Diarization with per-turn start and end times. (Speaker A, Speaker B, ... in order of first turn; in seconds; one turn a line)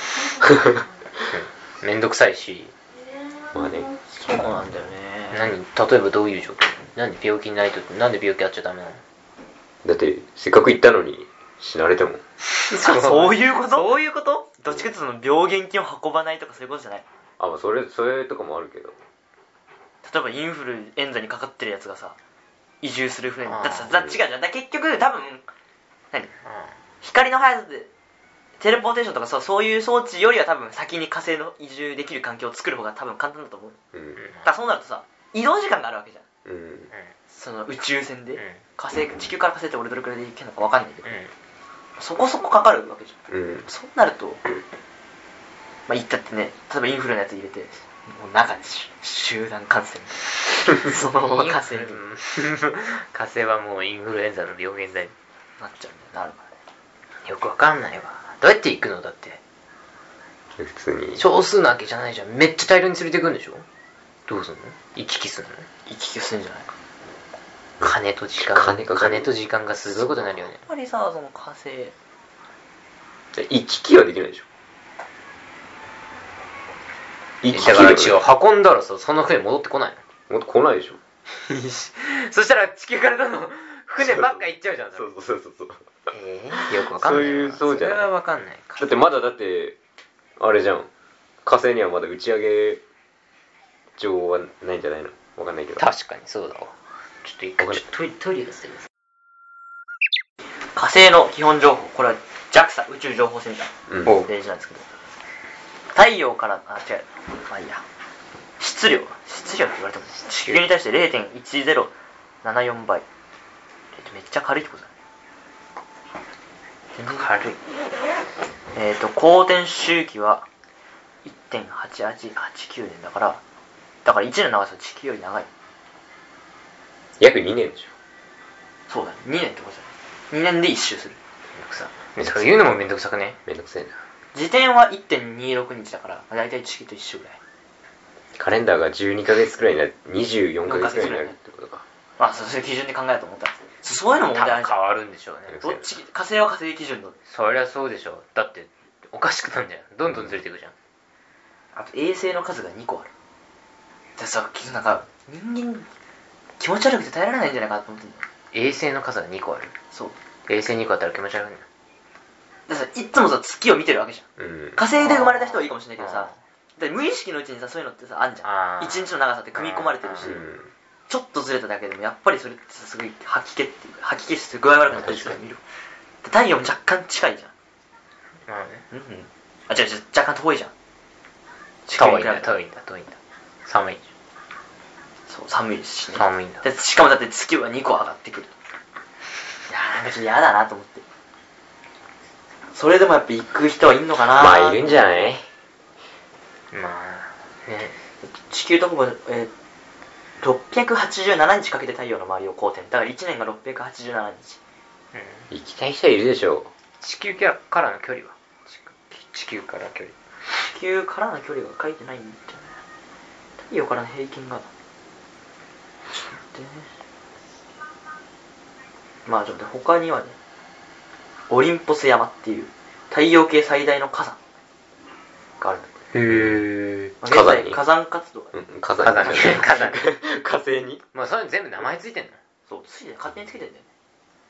Speaker A: 0.3-0.8
Speaker B: 1.3-2.7
Speaker A: 3.5-3.9
Speaker C: 4.1-5.5
Speaker B: 5.3-9.0
Speaker A: 9.8-12.2
Speaker B: 12.6-14.5
Speaker C: 12.7-14.0
Speaker C: 14.6-17.0
Speaker A: 17.4-19.0
Speaker C: 20.0-22.2
Speaker C: 22.8-25.4
Speaker B: 23.4-23.9
Speaker A: 23.9-24.2
Speaker B: 26.4-26.7
Speaker C: 27.0-27.9
Speaker C: 28.6-33.8
Speaker A: 33.9-34.2
Speaker B: 34.1-34.5
Speaker C: 34.4-36.2
Speaker A: 36.4-36.9
Speaker C: 37.3-41.1
Speaker B: 41.0-41.3
Speaker C: 42.0-44.4
Speaker A: 43.3-43.6
Speaker C: 45.9-52.0
Speaker B: 50.9-55.1
Speaker C: 55.6-56.5
Speaker B: 57.2-59.4
Speaker A: 60.6-61.2
Speaker B: 61.2-63.6
Speaker B: 64.3-65.7
Speaker C: 65.8-66.7
Speaker A: 67.8-69.3
Speaker B: 67.8-70.6
Speaker C: 70.5-71.9
Speaker A: 73.3-74.5
Speaker A: 77.4-78.2
Speaker B: 77.5-80.0
Speaker A: 80.3-81.0
Speaker B: 81.3-85.1
Speaker A: 84.0-85.8
Speaker B: 86.1-89.0
Speaker A: 86.6-88.1
Speaker A: 88.8-89.8
Speaker A: 90.4-90.9
Speaker A: 91.4-92.8
Speaker A: 94.0-95.9
Speaker B: 95.8-98.9
Speaker C: 100.7-104.9
Speaker A: 103.9-104.2
Speaker C: 105.9-107.8
Speaker C: 108.6-111.9
Speaker C: 112.4-113.0
Speaker C: 113.9-114.9
Speaker C: 117.0-117.3
Speaker B: 117.0-117.6
Speaker C: 118.7-120.5
Speaker C: 121.2-123.4
Speaker C: 124.0-125.5
Speaker A: 127.2-127.9
Speaker C: 128.9-131.2
Speaker B: 131.5-133.4
Speaker A: 132.2-132.7
Speaker A: 133.4-133.9
Speaker C: 134.3-137.4
Speaker A: 138.3-141.8
Speaker C: 140.7-141.3
Speaker C: 142.2-144.8
Speaker B: 144.2-145.7
Speaker A: 145.5-145.8
Speaker C: 145.6-147.2
Speaker B: 147.3-150.7
Speaker A: 150.1-150.3
Speaker C: 151.7-153.1
Speaker C: 154.2-155.9
Speaker C: 156.6-158.2
Speaker B: 158.5-159.7
Speaker B: 160.5-161.6
Speaker C: 162.7-170.4
Speaker A: 164.4-164.8
Speaker B: 165.0-166.3
Speaker B: 168.4-169.0
Speaker B: 169.5-170.3
Speaker A: 170.2-170.7
Speaker C: 171.1-175.6
Speaker C: 176.2-177.5
Speaker B: 178.5-178.8
Speaker C: 178.9-180.7
Speaker C: 181.8-182.5
Speaker B: 182.0-184.0
Speaker C: 185.3-188.5
Speaker B: 186.2-186.6
Speaker C: 189.7-191.0
Speaker C: 192.7-195.0
Speaker A: 194.3-195.4
Speaker B: 196.7-197.9
Speaker C: 198.2-199.5
Speaker C: 200.4-204.6
Speaker B: 205.1-205.4
Speaker A: 205.5-206.7
Speaker B: 207.0-210.1
Speaker C: 210.6-212.8
Speaker C: 213.7-214.7
Speaker C: 216.1-216.9
Speaker C: 219.2-220.3
Speaker C: 221.5-224.4
Speaker C: 225.6-225.9
Speaker B: 226.1-227.1
Speaker A: 226.3-226.6
Speaker C: 227.2-228.5
Speaker A: 227.2-227.8
Speaker A: 228.5-231.0
Speaker B: 229.0-230.1
Speaker B: 231.1-232.4
Speaker C: 232.7-233.8